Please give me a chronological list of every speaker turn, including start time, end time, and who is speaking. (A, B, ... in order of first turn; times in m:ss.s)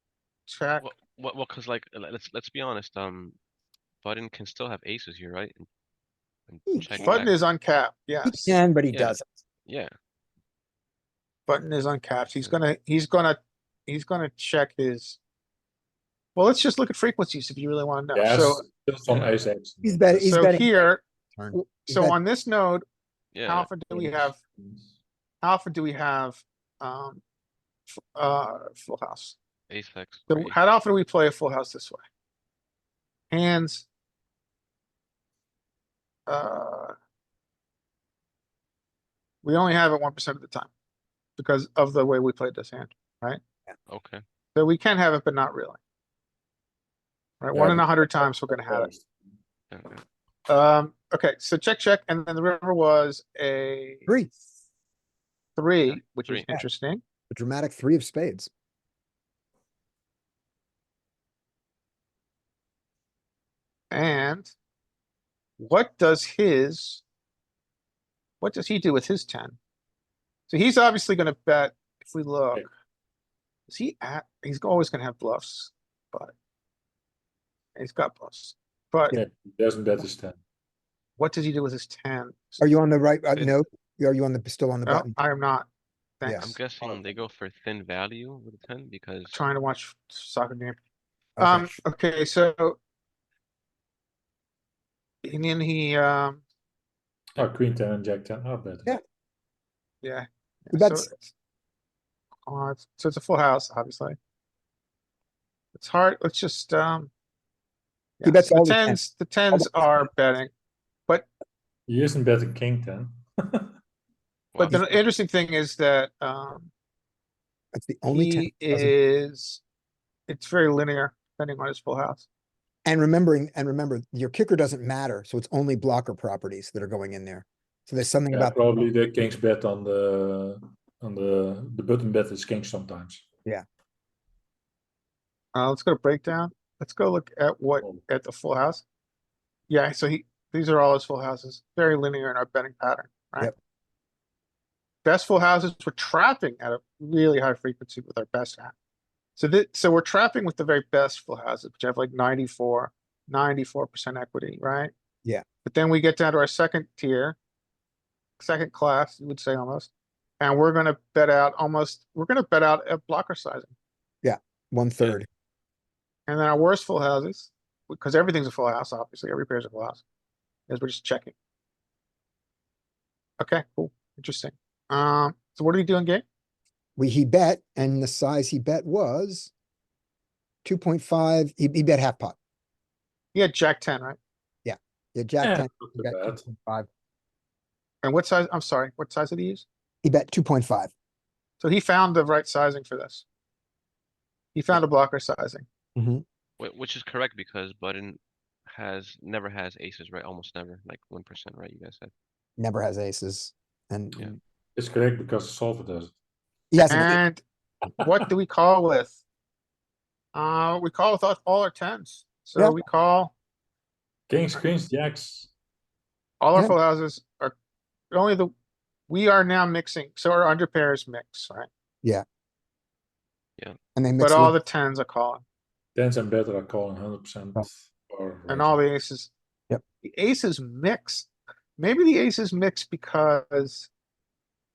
0:00.5-0:00.9 A
0:00.8-0:03.4 B
0:04.0-0:05.7 B
0:06.5-0:07.3 B
0:06.7-0:07.1 C
0:07.0-0:08.6 A
0:08.2-0:09.4 C
0:08.9-0:09.9 B
0:11.5-0:15.2 A
0:16.4-0:18.6 A
0:18.2-0:20.4 D
0:19.8-0:20.8 C
0:20.2-0:22.8 A
0:21.4-0:22.2 C
0:23.3-0:23.7 B
0:23.5-0:24.4 A
0:23.9-0:24.9 D
0:25.4-0:27.2 A
0:27.9-0:29.4 A
0:29.7-0:30.6 B
0:30.3-0:32.0 A
0:33.3-0:33.9 A
0:36.3-0:36.9 A
0:39.4-0:40.7 A
0:41.4-0:43.4 A
0:43.9-0:44.2 B
0:44.6-0:45.8 A
0:47.4-0:48.9 A
0:47.6-0:49.1 D
0:49.7-0:50.0 B
0:50.5-0:54.1 A
0:54.1-0:54.3 C
0:55.6-0:57.0 A
0:55.9-0:56.5 B
0:57.3-0:58.5 C
1:03.9-1:04.5 A
1:05.6-1:07.0 A
1:08.4-1:09.6 A
1:10.5-1:12.7 A
1:13.7-1:16.3 A
1:17.8-1:19.2 A
1:19.1-1:20.4 D
1:21.2-1:22.6 A
1:22.6-1:25.1 C
1:24.8-1:25.7 A
1:26.2-1:26.5 A
1:26.2-1:26.5 C
1:26.4-1:29.4 B
1:29.3-1:30.8 A
1:31.4-1:31.8 C
1:31.4-1:32.8 A
1:35.2-1:36.4 A
1:37.4-1:38.9 D
1:40.0-1:41.3 A
1:40.7-1:41.1 C
1:42.5-1:44.2 A
1:45.8-1:47.1 A
1:48.2-1:50.5 A
1:48.2-1:49.0 C
1:51.9-1:53.8 D
1:54.5-1:54.8 B
1:54.6-1:56.7 A
1:54.6-1:55.0 C
1:57.7-1:58.9 C
1:58.1-1:59.6 A
2:00.3-2:02.3 A
2:02.8-2:08.8 C
2:08.3-2:13.2 D
2:15.6-2:18.8 A
2:19.7-2:23.5 A
2:25.0-2:28.7 A
2:29.4-2:34.9 A
2:35.6-2:37.4 A
2:38.4-2:43.7 A
2:44.2-2:45.3 C
2:46.3-2:50.0 A
2:50.7-2:51.3 A
2:53.4-2:56.2 A
2:57.0-2:59.5 C
3:00.6-3:02.4 C
3:03.3-3:04.2 A
3:04.6-3:06.9 C
3:05.4-3:06.5 D
3:08.0-3:09.7 A
3:10.0-3:10.9 C
3:11.6-3:13.2 A
3:14.5-3:15.6 A
3:16.0-3:16.2 C
3:16.6-3:22.1 B
3:22.6-3:24.4 C
3:24.8-3:26.1 D
3:26.7-3:27.2 C
3:26.9-3:27.4 A
3:28.0-3:29.2 A
3:30.3-3:33.3 A
3:34.3-3:35.5 D
3:36.4-3:37.6 A
3:38.1-3:38.5 A
3:39.1-3:41.7 A
3:44.0-3:44.6 C
3:44.2-3:45.4 A
3:46.0-3:48.8 D
3:48.5-3:49.3 A
3:50.0-3:53.9 A